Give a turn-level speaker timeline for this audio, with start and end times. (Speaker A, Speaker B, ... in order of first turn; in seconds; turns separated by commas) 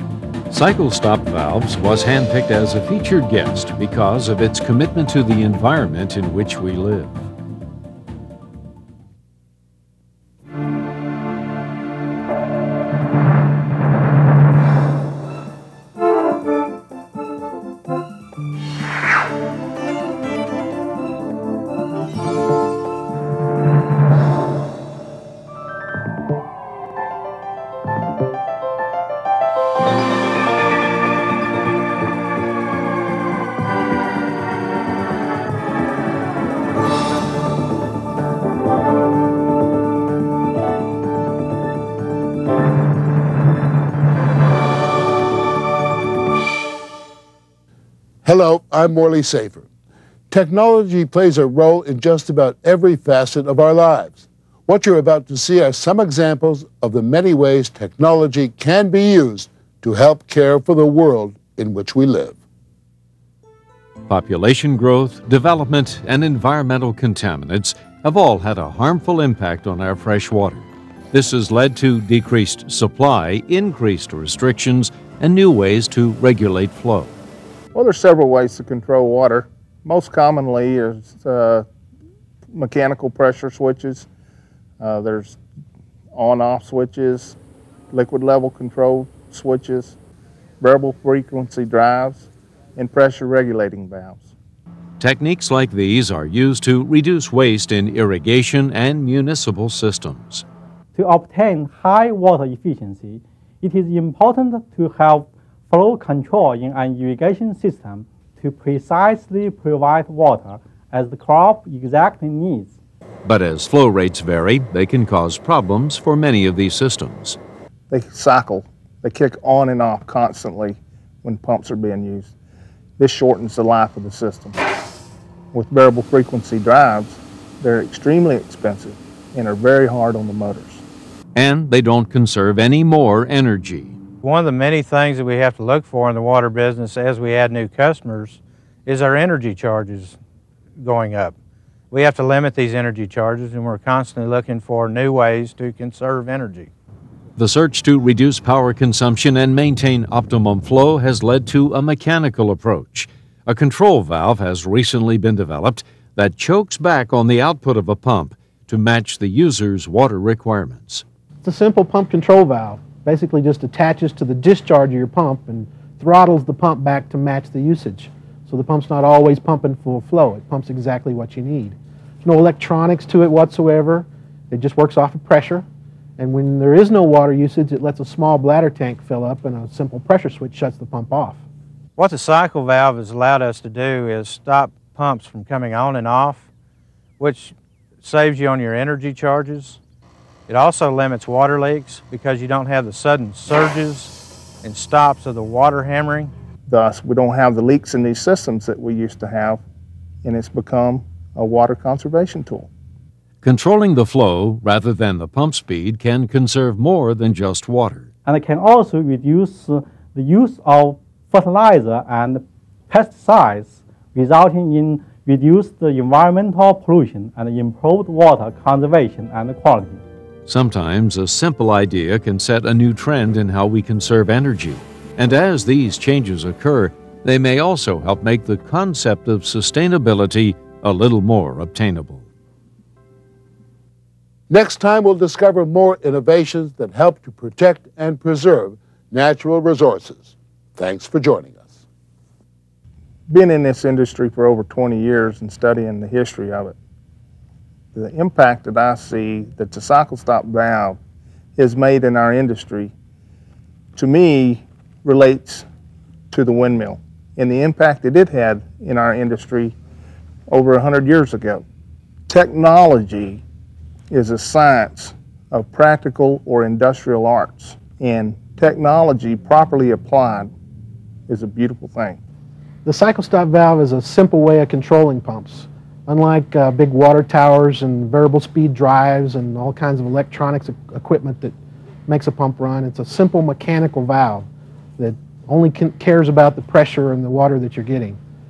Speaker A: 0.5-7.3, Speaker B: 48.2-49.6, Speaker B: 50.3-62.4, Speaker A: 64.1-77.1, Speaker C: 77.7-81.7, Speaker C: 82.5-84.1, Speaker C: 84.8-85.4, Speaker C: 86.1-87.4, Speaker C: 87.9-90.0, Speaker C: 90.6-94.3, Speaker A: 95.0-100.4, Speaker D: 100.9-112.7, Speaker A: 113.2-117.4, Speaker C: 117.9-122.3, Speaker C: 123.0-124.6, Speaker C: 125.5-130.8, Speaker A: 131.3-134.0, Speaker E: 134.2-140.2, Speaker E: 140.8-141.3, Speaker E: 141.9-146.7, Speaker A: 147.4-161.0, Speaker F: 161.4-175.6, Speaker F: 176.2-181.4, Speaker E: 181.9-186.5, Speaker E: 187.2-189.8, Speaker E: 190.5-196.3, Speaker C: 196.7-199.6, Speaker C: 200.2-202.7, Speaker A: 203.4-208.1, Speaker D: 208.2-220.0, Speaker A: 220.4-232.2, Speaker B: 234.5-241.8, Speaker C: 243.3-246.7, Speaker C: 247.9-251.0, Speaker C: 251.6-252.9, Speaker C: 253.9-255.7, Speaker C: 256.3-259.7, Speaker C: 260.5-261.6, Speaker C: 262.3-263.4, Speaker C: 264.1-270.5, Speaker C: 271.3-272.2, Speaker F: 272.8-281.5, Speaker F: 282.1-288.2